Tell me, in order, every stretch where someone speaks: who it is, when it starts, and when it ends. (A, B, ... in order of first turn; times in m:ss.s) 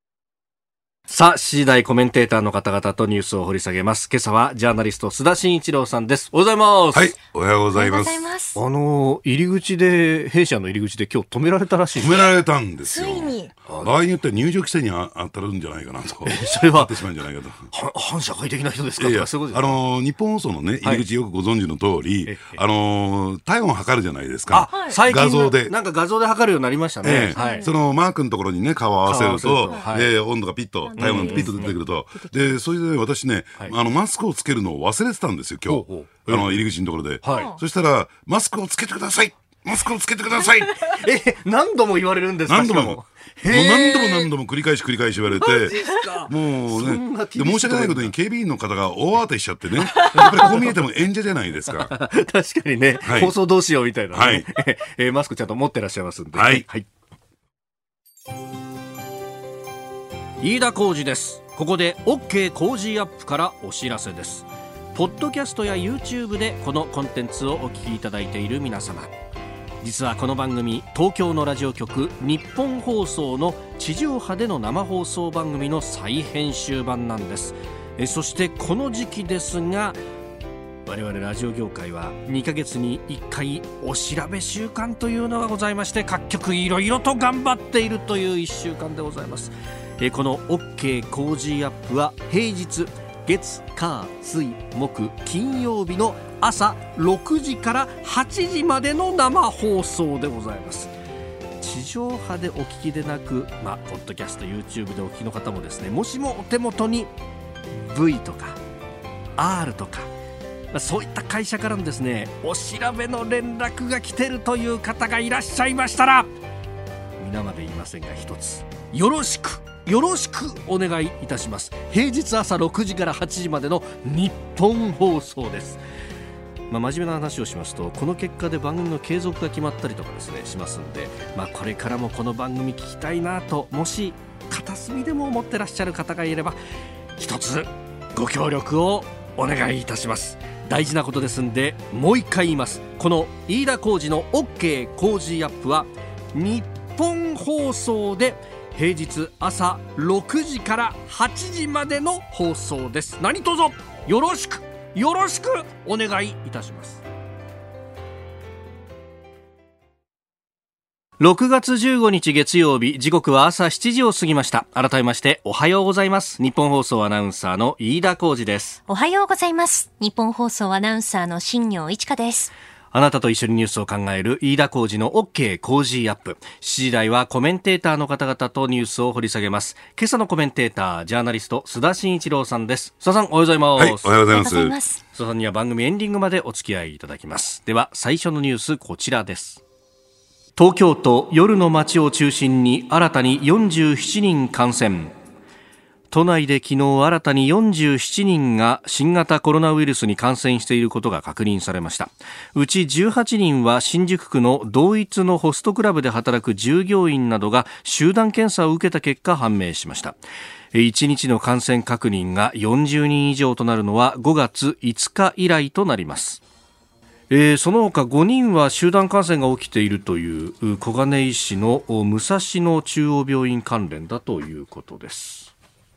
0:01.1-0:07.1 A
0:06.9-0:08.3 B
0:07.7-0:08.6 C
0:08.6-0:12.3 A
0:12.0-0:17.7 B
0:12.8-0:13.5 C
0:13.7-0:13.9 A
0:16.2-0:17.0 A
0:17.7-0:19.8 A
0:19.0-0:25.7 B
0:22.2-0:22.6 A
0:24.5-0:27.6 A
0:27.0-0:40.9 B
0:27.4-0:27.7 C
0:29.0-0:30.1 A
0:30.8-0:32.6 C
0:31.0-0:31.8 A
0:35.7-0:36.6 A
0:37.2-0:37.5 A
0:37.3-0:37.6 C
0:40.8-0:44.3 A
0:42.5-0:52.0 B
0:45.3-0:48.1 A
0:49.9-0:50.8 A
0:51.9-0:56.9 A
0:53.0-0:53.3 B
0:54.1-0:54.5 B
0:56.3-0:56.7 B
1:00.4-1:09.1 A
1:09.8-1:20.0 A
1:20.9-1:40.9 A
1:41.6-1:47.1 A
1:47.7-1:48.6 A
1:49.4-1:50.1 A
1:50.7-1:56.3 A
1:57.2-2:05.8 A
2:06.7-2:16.6 A
2:17.2-2:37.0 A
2:41.2-2:48.8 A
2:48.9-2:52.5 C
2:52.9-3:04.1 A
3:03.8-3:04.8 B
3:04.3-3:05.0 C
3:05.1-3:09.6 A
3:10.6-3:15.1 A
3:16.1-3:30.2 A
3:30.7-3:36.4 A
3:37.3-3:45.5 A